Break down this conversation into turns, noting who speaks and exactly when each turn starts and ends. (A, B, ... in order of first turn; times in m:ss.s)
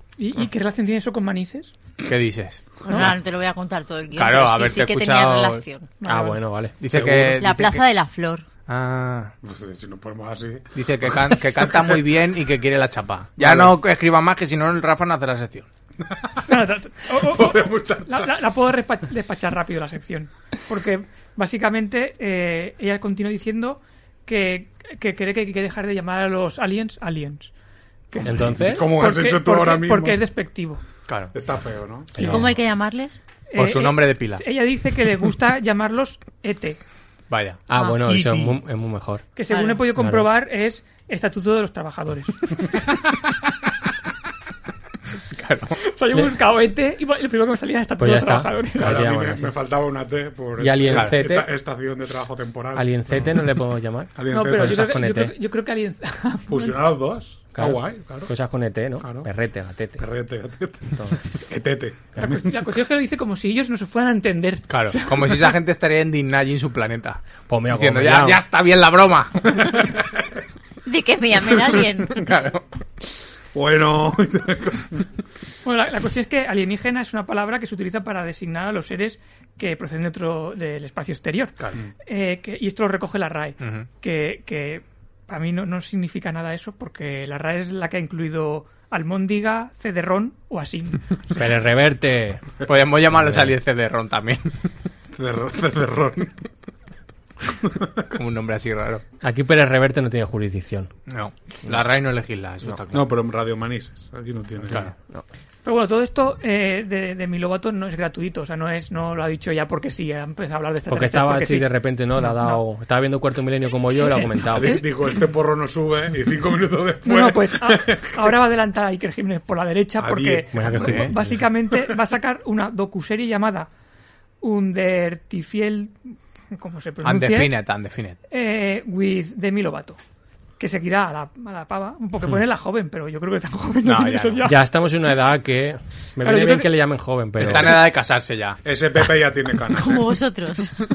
0:00.2-0:01.7 A
0:02.0-0:03.1 B
0:02.8-0:05.9 C
0:04.2-0:05.6 B
0:06.0-0:06.4 A
0:06.1-0:06.8 D
0:06.8-0:07.8 B
0:06.9-0:07.5 E
0:07.4-0:08.4 C
0:08.7-0:09.3 B
0:09.4-0:11.9 E
0:10.8-0:15.7 B
0:13.4-0:13.7 E
0:16.0-0:16.5 E
0:16.5-0:27.5 A
0:17.1-0:18.3 E
0:28.1-0:30.8 A
0:28.2-0:28.9 D
0:28.4-0:30.2 E
0:31.1-0:31.3 B
0:31.3-0:32.4 E
0:32.2-0:32.5 D
0:32.2-0:33.2 C
0:33.5-0:36.8 A
0:33.6-0:34.5 B
0:37.3-0:38.5 B
0:37.7-0:39.2 D
0:39.4-0:42.6 A
0:39.5-0:39.8 C
0:40.0-0:40.3 D
0:45.3-0:45.8 B
0:45.8-0:49.0 A
0:48.0-0:49.5 D
0:48.8-0:53.4 E
0:50.6-0:51.5 D
0:50.9-0:51.2 B
0:52.8-0:55.3 D
0:54.2-0:54.8 E
0:54.3-0:56.8 A
0:56.5-0:58.3 E
0:57.6-1:00.0 D
0:59.0-0:59.3 E
1:00.0-1:02.5 E
1:01.0-1:01.2 D
1:02.2-1:05.5 A
1:04.7-1:09.9 B
1:07.5-1:08.4 D
1:09.8-1:10.2 E
1:10.8-1:12.3 C
1:12.1-1:12.6 B
1:13.5-1:15.1 E
1:15.6-1:31.6 A
1:23.6-1:23.9 B
1:31.4-1:32.4 D
1:32.6-1:34.5 B
1:33.1-1:33.6 D
1:35.1-1:36.4 E
1:37.6-1:38.0 E
1:38.1-1:39.0 B
1:39.2-1:40.9 D
1:41.1-1:43.1 B
1:42.9-1:44.9 E
1:44.7-1:44.9 B
1:45.6-1:52.6 A
1:50.9-1:54.8 D
1:54.1-1:54.9 A
1:54.5-1:58.3 E
1:57.0-2:03.7 A
2:00.0-2:00.6 E
2:00.5-2:01.4 D
2:00.7-2:01.1 B
2:04.4-2:06.0 A
2:06.5-2:07.6 A
2:07.0-2:08.2 B
2:08.3-2:10.0 A
2:10.6-2:14.6 A
2:13.8-2:14.5 B
2:14.4-2:17.8 D
2:16.2-2:16.8 A
2:17.4-2:18.6 B
2:18.6-2:20.1 E
2:19.7-2:20.7 C